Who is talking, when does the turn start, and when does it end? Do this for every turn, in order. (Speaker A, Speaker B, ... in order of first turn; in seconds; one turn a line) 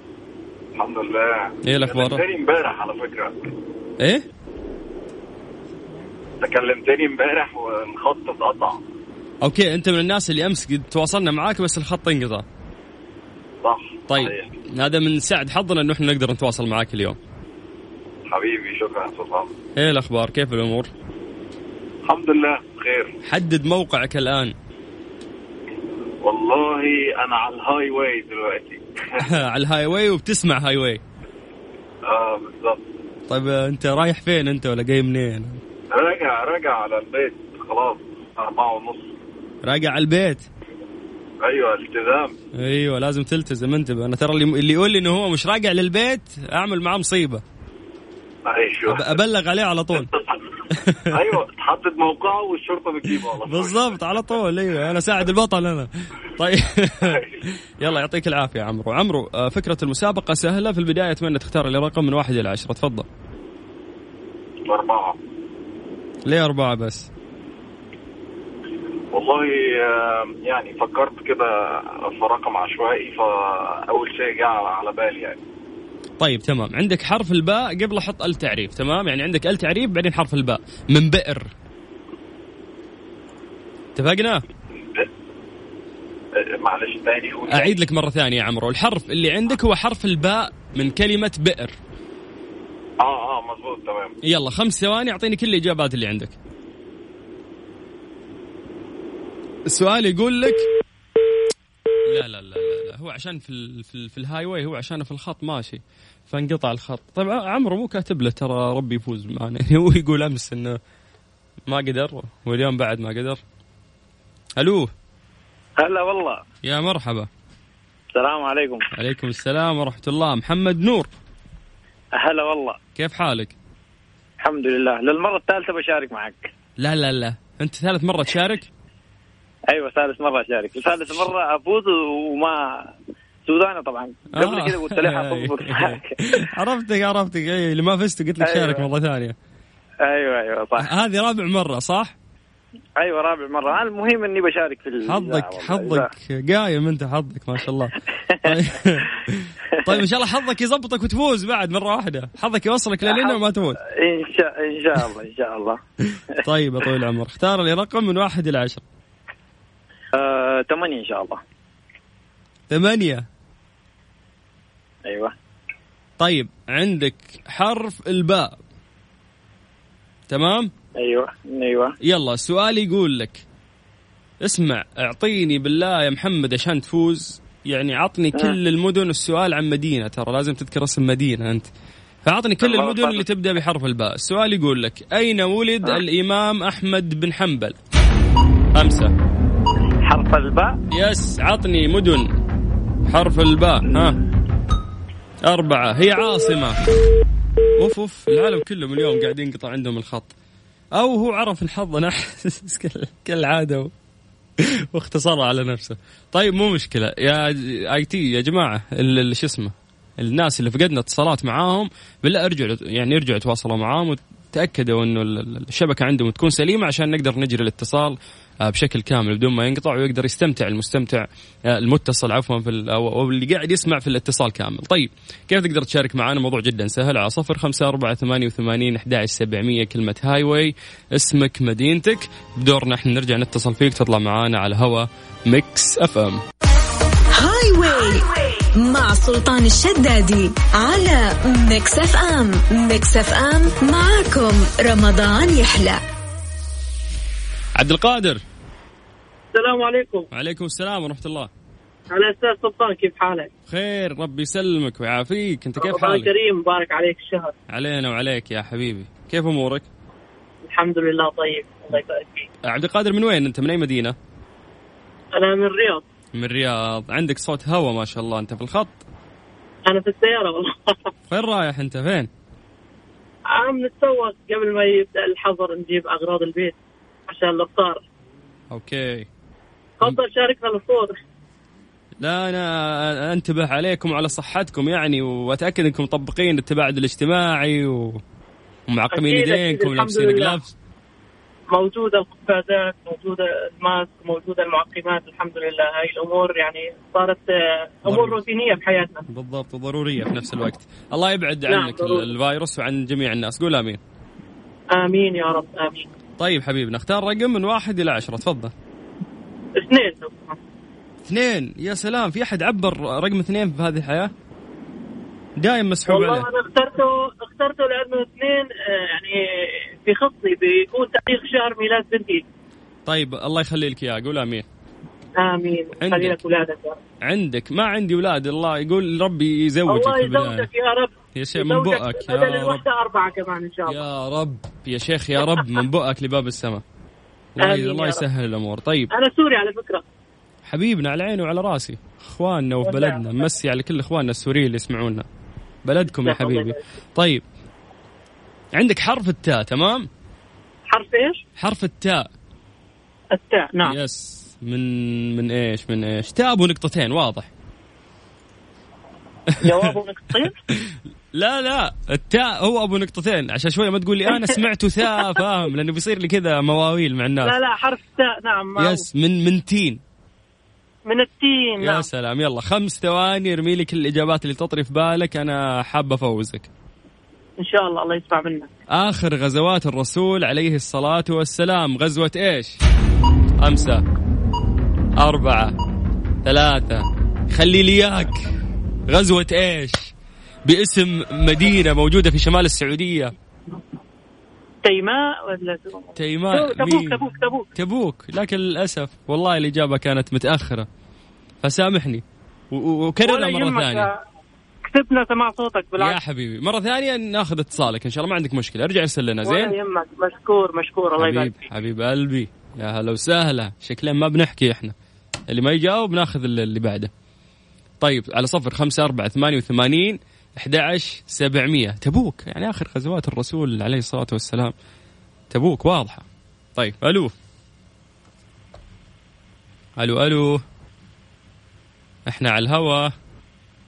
Speaker A: 0.8-3.3
Speaker B: 1.6-2.2
Speaker A: 6.4-8.8
Speaker B: 9.4-12.4
Speaker A: 13.6-14.5
Speaker B: 14.1-17.2
Speaker A: 18.3-19.5
Speaker B: 19.8-20.9
Speaker A: 22.1-23.1
Speaker B: 23.2-24.5
Speaker A: 26.2-29.3
Speaker B: 29.2-31.0
Speaker A: 32.1-32.9
Speaker B: 33.3-35.6
Speaker A: 35.9-39.1
Speaker B: 39.6-40.5
Speaker A: 41.4-42.4
Speaker B: 42.5-47.4
Speaker A: 48.5-49.2
Speaker B: 48.9-50.1
Speaker B: 50.8-51.2
Speaker A: 51.1-53.9
Speaker B: 53.5-57.2
Speaker A: 57.0-57.4
Speaker B: 57.8-63.1
Speaker A: 64.7-65.2
Speaker B: 66.3-67.1
Speaker A: 69.1-75.4
Speaker B: 76.2-81.5
Speaker B: 84.0-84.4
Speaker A: 86.4-87.8
Speaker B: 87.5-91.7
Speaker A: 93.0-94.1
Speaker B: 94.2-96.3
Speaker B: 99.7-100.7
Speaker B: 102.1-110.8
Speaker B: 111.7-113.4
Speaker B: 114.6-114.9
Speaker C: 115.8-116.4
Speaker B: 116.6-117.3
Speaker C: 118.2-118.8
Speaker B: 118.9-121.1
Speaker C: 122.2-122.8
Speaker B: 123.0-123.5
Speaker C: 124.4-126.5
Speaker B: 126.8-128.7
Speaker C: 129.7-132.9
Speaker C: 133.5-136.2
Speaker B: 134.3-139.3
Speaker C: 138.4-138.9
Speaker C: 140.1-140.9
Speaker B: 140.8-142.2
Speaker C: 143.0-146.1
Speaker B: 145.0-153.8
Speaker C: 148.3-148.6
Speaker C: 153.0-155.8
Speaker B: 156.4-158.8
Speaker C: 160.1-161.4
Speaker B: 162.7-163.2
Speaker C: 165.1-165.3
Speaker B: 166.2-168.6
Speaker B: 170.3-170.7
Speaker C: 170.9-171.9
Speaker B: 172.0-173.4
Speaker B: 174.4-181.7
Speaker B: 182.3-187.8
Speaker C: 182.6-183.2
Speaker B: 188.7-189.1
Speaker C: 190.0-190.8
Speaker B: 190.9-192.3
Speaker B: 193.1-194.2
Speaker B: 195.5-196.8
Speaker B: 197.8-200.3
Speaker B: 200.9-203.9
Speaker B: 204.6-236.4
Speaker D: 237.3-246.0
Speaker B: 247.8-248.4
Speaker E: 249.5-250.3
Speaker B: 250.3-251.5
Speaker E: 252.1-253.5
Speaker B: 253.7-256.3
Speaker E: 255.8-257.5
Speaker B: 257.7-259.9
Speaker E: 260.6-262.5
Speaker B: 262.7-264.1
Speaker E: 265.4-266.0
Speaker B: 266.4-269.0
Speaker E: 269.9-271.1
Speaker B: 271.3-272.3
Speaker E: 273.5-276.8
Speaker E: 277.3-278.0
Speaker B: 278.7-279.3
Speaker E: 280.0-281.2
Speaker B: 282.2-288.2
Speaker B: 288.9-290.7
Speaker E: 289.1-290.6
Speaker E: 291.7-299.2
Speaker B: 298.1-298.4
Speaker B: 299.3-304.0
Speaker E: 301.7-302.3
Speaker E: 304.9-306.1
Speaker B: 306.4-308.7
Speaker E: 309.8-310.6
Speaker B: 311.3-314.3
Speaker B: 315.6-316.5
Speaker E: 316.1-319.4
Speaker E: 320.0-322.4
Speaker B: 323.1-324.6
Speaker E: 325.4-327.0
Speaker B: 326.0-326.4
Speaker B: 327.2-330.7
Speaker E: 329.9-334.0
Speaker B: 331.4-332.8
Speaker B: 333.9-336.8
Speaker B: 337.6-339.1
Speaker E: 337.6-338.2
Speaker E: 339.1-340.0
Speaker B: 340.7-345.3
Speaker E: 342.8-343.5
Speaker B: 345.9-347.4
Speaker E: 346.2-346.8
Speaker B: 348.8-350.1
Speaker E: 350.9-351.4
Speaker B: 351.6-352.3
Speaker E: 353.3-354.0
Speaker B: 353.8-357.5
Speaker E: 359.6-360.6
Speaker B: 359.6-359.9
Speaker B: 360.9-367.6
Speaker E: 367.4-369.1
Speaker B: 368.8-370.0
Speaker E: 371.1-372.1
Speaker B: 371.8-376.7
Speaker E: 377.6-378.7
Speaker B: 378.9-382.8
Speaker B: 383.6-384.0
Speaker B: 385.2-385.7
Speaker B: 386.4-388.3
Speaker B: 389.1-390.1
Speaker B: 390.7-393.3
Speaker E: 394.8-397.7
Speaker B: 396.2-397.2
Speaker B: 397.8-400.9
Speaker B: 401.6-404.1
Speaker E: 403.2-404.1
Speaker E: 404.9-406.2
Speaker B: 406.0-409.8
Speaker E: 409.4-411.7
Speaker B: 411.2-414.9
Speaker B: 415.5-417.1
Speaker B: 418.0-424.7
Speaker B: 425.5-426.2
Speaker B: 426.8-427.3
Speaker B: 430.0-430.6
Speaker B: 432.3-433.1